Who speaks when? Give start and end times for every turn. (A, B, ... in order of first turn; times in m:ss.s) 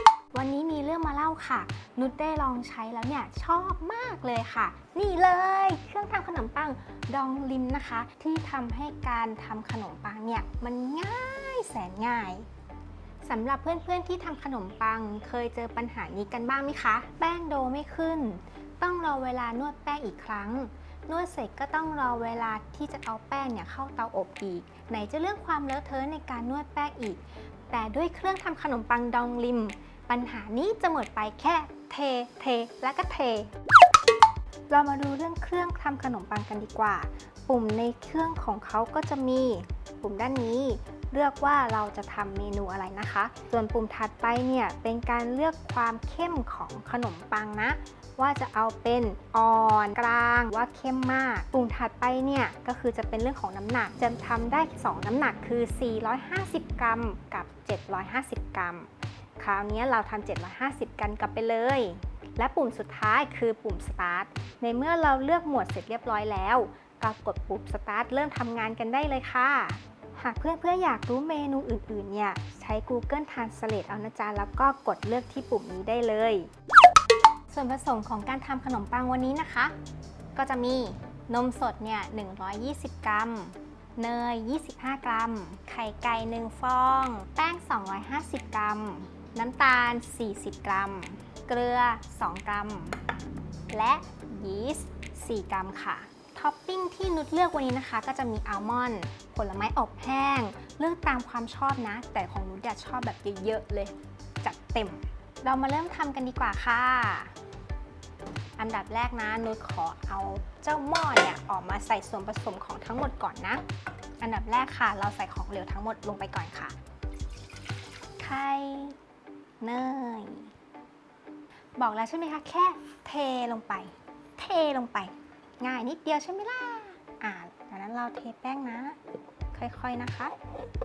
0:00.3-0:12.5 A
0:13.2-0:33.5 A
0:34.7-1:16.5 A
1:17.5-1:19.7 A
1:20.3-1:33.0 A
1:33.7-1:47.3 A
1:48.6-1:53.6 A
1:54.2-1:56.8 A
1:58.2-1:59.0 A
1:59.6-2:00.5 A
2:01.8-2:09.0 A
2:09.5-2:10.3 A